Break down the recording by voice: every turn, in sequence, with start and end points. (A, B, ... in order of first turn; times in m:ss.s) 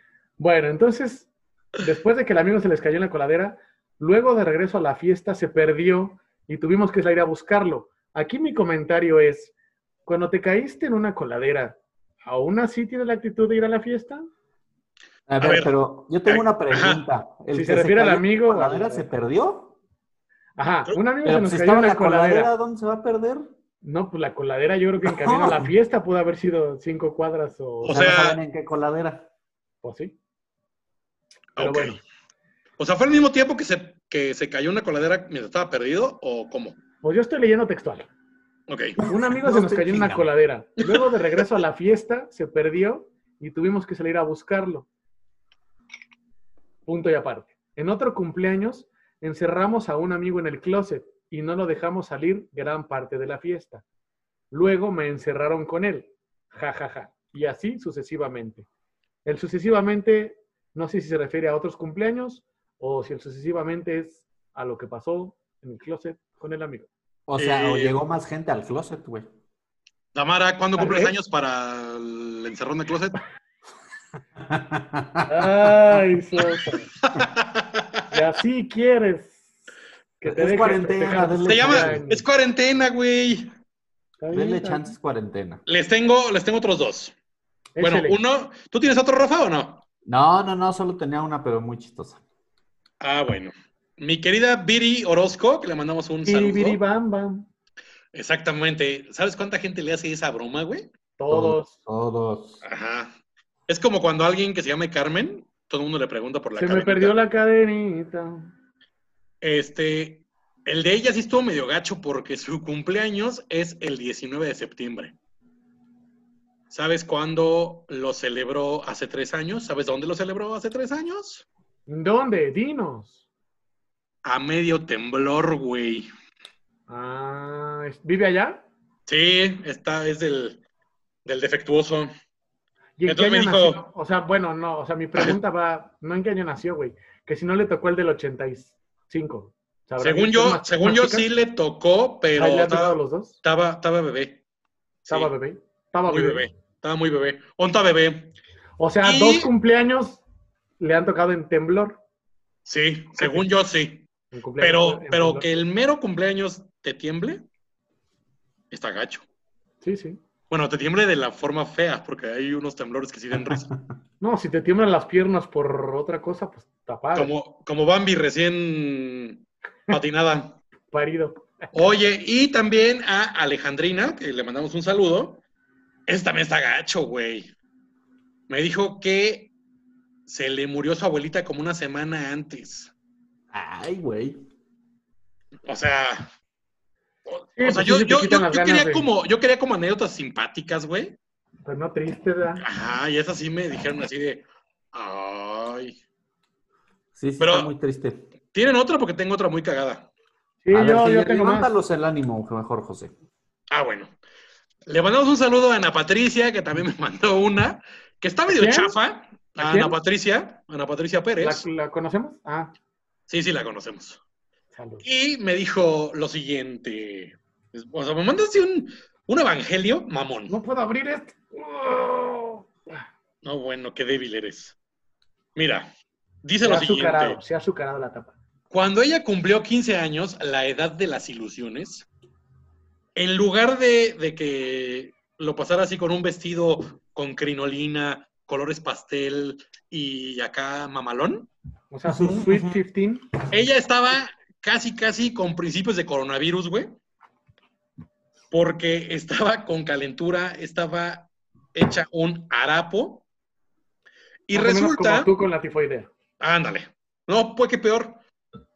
0:00.4-0:09.5 A
0:10.0-0:14.2 A
0:15.3-0:19.8 B
0:15.4-0:15.7 C
0:16.2-0:17.0 C
0:17.5-0:19.1 A
0:20.6-0:22.5 A
0:21.2-0:23.5 B
0:23.8-0:28.0 A
0:25.0-0:25.7 B
0:27.8-0:28.4 C
0:27.9-0:29.3 B
0:29.8-0:30.1 A
0:31.6-0:32.0 C
0:31.6-0:32.0 A
0:32.8-0:36.8 C
0:37.0-0:38.1 A
0:38.7-0:39.0 C
0:39.0-0:44.9 A
0:39.0-0:40.3 B
0:46.9-0:53.8 A
0:54.5-0:58.7 A
0:59.2-1:06.9 A
1:07.3-1:09.3 B
1:07.4-1:08.0 C
1:10.1-1:13.2 C
1:10.8-1:11.1 A
1:14.4-1:15.3 B
1:15.3-1:16.9 A
1:17.0-1:18.0 C
1:18.1-1:19.5 A
1:20.2-1:22.2 A
1:20.2-1:22.0 B
1:21.4-1:23.5 C
1:24.2-1:24.9 A
1:24.3-1:25.6 B
1:25.7-1:27.1 C
1:27.8-1:28.2 A
1:27.8-1:29.8 C
1:30.0-1:32.2 B
1:33.0-1:36.8 C
1:36.2-1:37.4 A
1:38.1-1:40.9 C
1:41.2-1:41.7 A
1:41.3-1:42.6 B
1:42.6-1:43.1 C
1:43.7-1:47.2 C
1:46.5-1:48.5 A
1:49.4-1:55.1 C
1:56.7-2:01.4 C
2:01.9-2:03.2 A
2:04.2-2:06.1 C
2:06.9-2:08.6 A
2:09.1-2:10.6 C
2:11.2-2:12.1 C
2:13.0-2:21.3 A
2:13.0-2:13.8 C
2:20.0-2:24.4 C
2:22.3-2:23.4 A
2:25.0-2:25.3 C
2:25.1-2:26.5 A
2:26.1-2:28.3 C
2:28.8-2:30.2 A
2:29.0-2:29.5 C
2:30.8-2:32.0 A
2:32.6-2:34.1 C
2:33.2-2:33.4 A
2:34.3-2:35.5 A
2:34.6-2:37.4 C
2:38.7-2:39.2 C
2:39.8-2:40.2 A
2:40.5-2:43.7 C
2:43.4-2:43.7 B
2:44.2-2:47.3 A
2:47.1-2:50.6 C
2:50.9-2:51.4 A
2:51.7-2:55.4 C
2:56.1-2:57.5 C
2:58.5-2:59.5 C
3:00.3-3:02.9 C
3:03.5-3:04.4 B
3:05.6-3:06.3 C
3:07.2-3:11.2 C
3:07.6-3:09.1 A
3:11.6-3:12.6 A
3:12.6-3:16.0 C
3:17.1-3:18.3 B
3:17.4-3:17.7 C
3:18.5-3:20.1 C
3:20.6-3:21.7 A
3:20.7-3:23.1 B
3:23.7-3:24.1 C
3:24.8-3:31.6 C
3:28.5-3:28.9 A
3:29.6-3:30.0 A
3:31.4-3:32.7 A
3:33.3-3:34.2 C
3:34.7-3:35.0 A
3:35.0-3:40.5 C
3:40.5-3:43.0 A
3:43.4-3:44.8 C
3:45.6-3:45.9 C
3:46.4-3:47.4 C
3:46.6-3:48.3 A
3:48.7-3:52.1 C
3:53.2-4:01.5 C
4:01.9-4:03.3 A
4:02.1-4:02.8 B
4:03.5-4:07.0 C
4:08.5-4:13.2 C
4:14.5-4:15.3 C
4:14.5-4:16.1 A
4:16.4-4:18.2 C